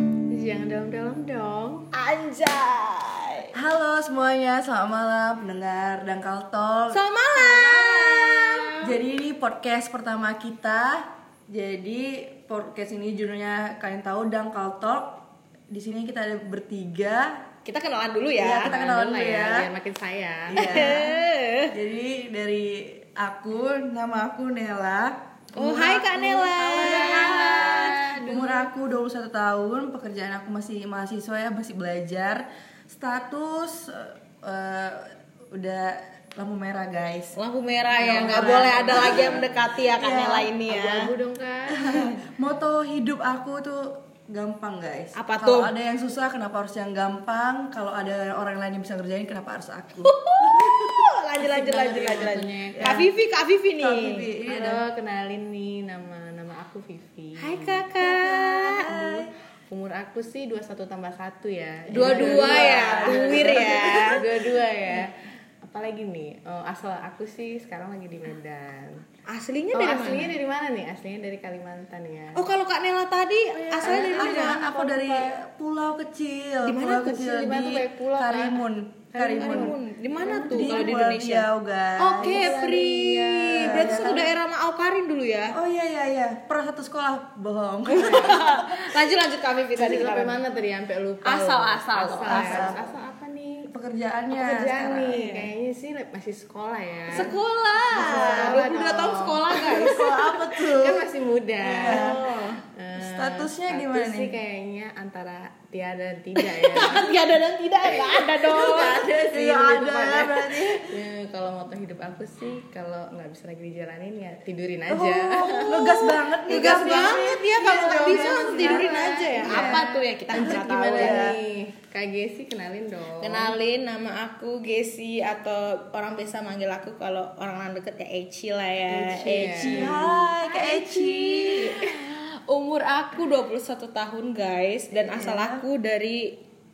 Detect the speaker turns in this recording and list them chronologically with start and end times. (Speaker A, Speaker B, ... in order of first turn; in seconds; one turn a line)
Speaker A: 0.3-1.9
Speaker B: 1.9-3.5
Speaker C: 3.5-17.4
Speaker B: 6.9-9.0
Speaker B: 17.6-18.7
Speaker C: 18.4-19.7
Speaker A: 18.6-21.0
Speaker C: 20.5-21.2
Speaker B: 20.5-21.7
Speaker C: 21.7-37.4
Speaker B: 25.5-28.6
Speaker B: 37.4-41.1
Speaker C: 37.9-40.5
Speaker A: 38.1-39.4
Speaker A: 40.7-42.1
Speaker C: 41.7-51.1
Speaker B: 45.1-45.7
Speaker B: 50.0-54.3
Speaker A: 51.4-53.1
Speaker C: 52.8-53.0
Speaker C: 53.8-54.8
Speaker A: 54.5-57.8
Speaker B: 57.4-59.1
Speaker C: 57.9-59.3
Speaker A: 59.7-69.0
Speaker B: 61.9-64.3
Speaker C: 61.9-64.1
Speaker B: 69.3-70.3
Speaker A: 69.7-72.5
Speaker B: 72.3-74.7
Speaker C: 73.5-82.7
Speaker A: 73.8-75.3
Speaker B: 76.6-77.2
Speaker A: 77.1-78.6
Speaker A: 79.1-80.9
Speaker B: 79.3-81.5
Speaker B: 82.0-85.5
Speaker A: 82.2-84.2
Speaker C: 83.6-84.3
Speaker C: 85.5-88.6
Speaker A: 87.9-88.7
Speaker B: 87.9-90.4
Speaker A: 89.3-93.7
Speaker B: 91.2-92.8
Speaker C: 92.3-92.8
Speaker C: 93.7-95.2
Speaker A: 94.3-97.4
Speaker B: 95.1-95.5
Speaker B: 97.1-100.6
Speaker A: 97.9-99.6
Speaker C: 98.0-98.3
Speaker C: 99.5-101.0
Speaker A: 100.6-102.1
Speaker C: 101.6-102.3
Speaker B: 101.8-102.6
Speaker A: 102.8-107.3
Speaker C: 103.0-104.3
Speaker B: 106.4-110.6
Speaker A: 107.8-109.3
Speaker C: 108.9-110.9
Speaker A: 110.8-123.6
Speaker C: 114.9-121.4
Speaker B: 115.7-121.3
Speaker B: 123.2-136.4
Speaker A: 128.9-130.1
Speaker C: 129.3-131.8
Speaker A: 131.5-132.0
Speaker C: 135.0-135.6